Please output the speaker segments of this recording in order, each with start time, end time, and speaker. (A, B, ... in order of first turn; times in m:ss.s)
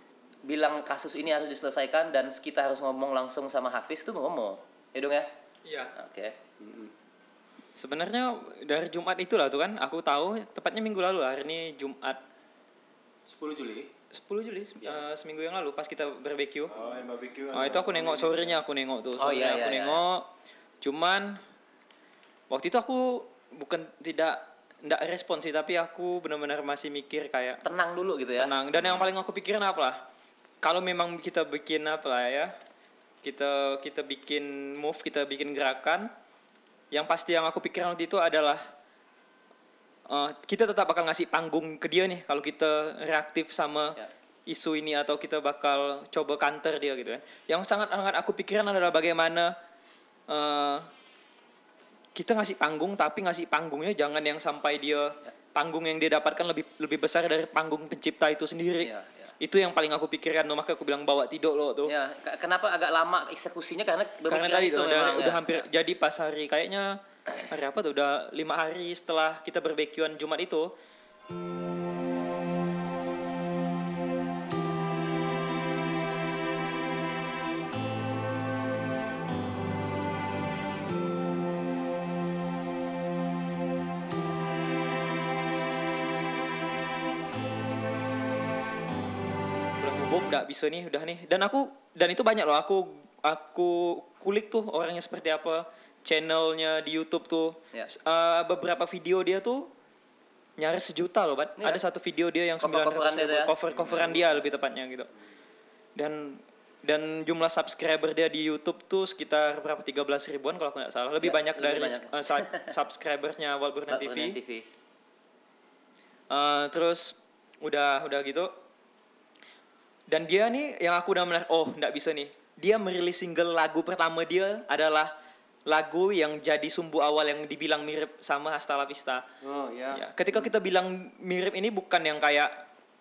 0:00.4-0:05.3 A
0:05.6-0:05.9 B
0:06.0-0:06.3 A
0:06.6-0:06.9 C
0:07.8-0:12.2 B
0:13.3-0:13.9 C
0:14.1-0:16.7 B
0:16.7-0:18.6 D
0:17.5-0:20.2 B
0:19.2-0:20.0 A
0:20.8-0:21.4 B
0:22.5-0:27.6 B
0:27.6-0:28.5 A
0:28.4-0:30.0 B
0:30.6-0:32.5 B
0:33.2-0:36.1 B
0:36.9-0:38.6 B
0:40.1-0:44.0 B
0:44.5-0:49.5 B
0:50.3-0:50.9 B
0:52.1-1:01.9 B
0:58.8-0:59.3 A
1:01.9-1:05.6 A
1:04.3-1:10.7 B
1:29.8-1:39.7 B
1:40.6-1:45.1 B
1:42.6-1:43.5 A
1:46.0-1:54.4 B
1:51.2-1:52.7 A
1:53.9-1:54.7 A
1:56.3-1:58.5 B
2:00.1-2:05.1 B
2:05.7-2:09.2 B
2:09.4-2:10.4 C
2:09.9-2:12.5 B